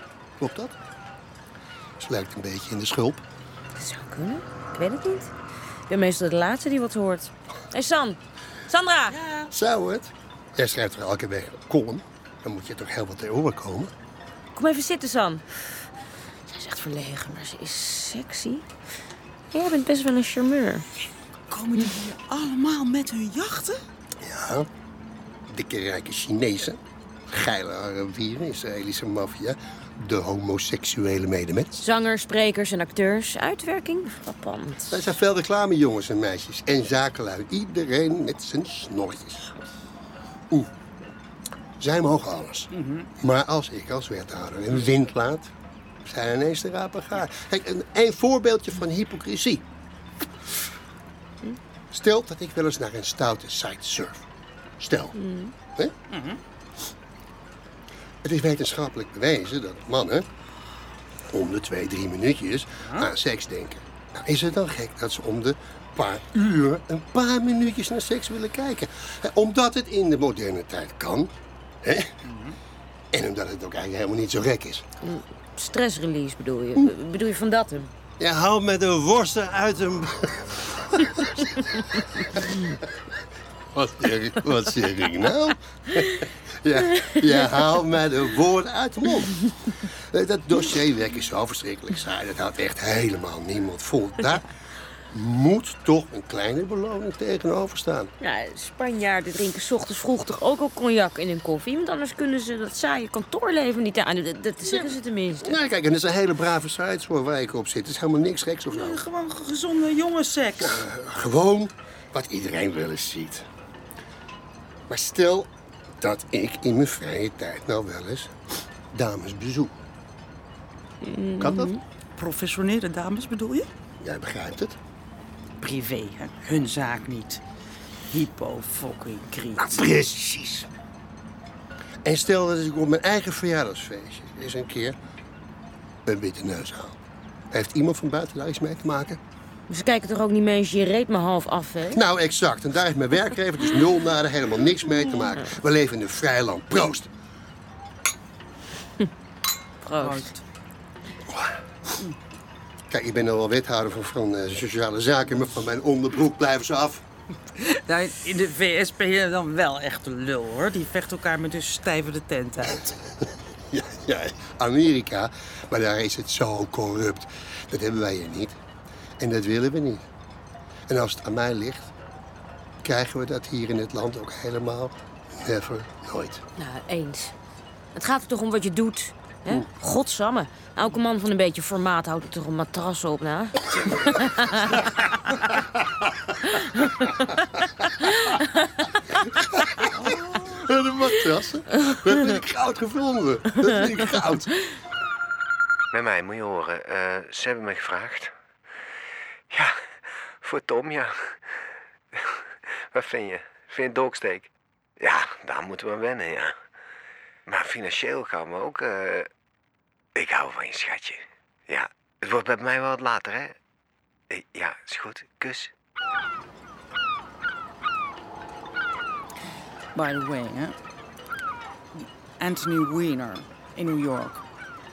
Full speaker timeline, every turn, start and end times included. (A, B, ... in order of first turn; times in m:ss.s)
0:00.4-0:00.8 A
0:02.0-0:03.2 A
0:03.8-0:05.3 B
0:05.9-0:09.2 B
0:09.4-0:13.9 A
0:14.5-0:15.4 B
0:16.5-0:18.7 B
0:19.5-0:20.9 B
0:21.5-0:23.8 C
0:24.2-0:24.7 A
0:25.5-0:31.8 A
0:31.8-0:35.0 B
0:34.9-0:39.5 A
0:41.8-0:45.5 A
0:42.7-0:43.1 C
0:46.0-0:49.7 A
0:51.9-0:54.3 A
0:54.8-0:55.2 A
0:55.2-0:55.5 B
0:56.1-0:56.4 C
0:58.2-1:00.3 A
1:01.3-1:12.2 A
1:12.3-1:12.5 C
1:13.1-1:14.8 A
1:15.0-1:17.9 B
1:18.2-1:22.8 A
1:23.7-1:34.4 A
1:35.1-1:38.1 A
1:38.2-1:45.6 B
1:45.4-1:49.0 A
1:48.7-1:50.8 C
1:50.6-1:53.5 A
1:54.9-1:55.5 A
1:56.0-1:58.3 A
1:58.9-1:59.8 A
2:01.0-2:01.8 B
2:01.4-2:01.7 A
2:02.2-2:03.7 C
2:04.0-2:04.8 A
2:05.6-2:07.4 C
2:08.1-2:09.8 C
2:09.6-2:10.7 A
2:12.0-2:15.0 A
2:16.0-2:17.0 A
2:17.5-2:19.2 A
2:19.7-2:22.0 B
2:21.9-2:27.1 A
2:29.8-2:30.3 B
2:30.0-2:30.4 C
2:31.3-2:31.6 A
2:32.9-2:37.0 A
2:37.6-2:43.0 C
2:43.7-2:48.6 A
2:49.2-2:50.1 A
2:50.9-2:51.9 A
2:52.8-2:56.4 A
2:56.6-2:57.3 B
2:57.9-3:04.9 B
3:06.5-3:07.1 B
3:08.0-3:08.7 B
3:09.5-3:14.5 A
3:15.9-3:18.4 D
3:19.5-3:26.6 D
3:27.4-3:29.3 D
3:30.1-3:33.6 D
3:34.3-3:35.7 D
3:39.9-3:40.8 C
3:41.9-3:44.4 C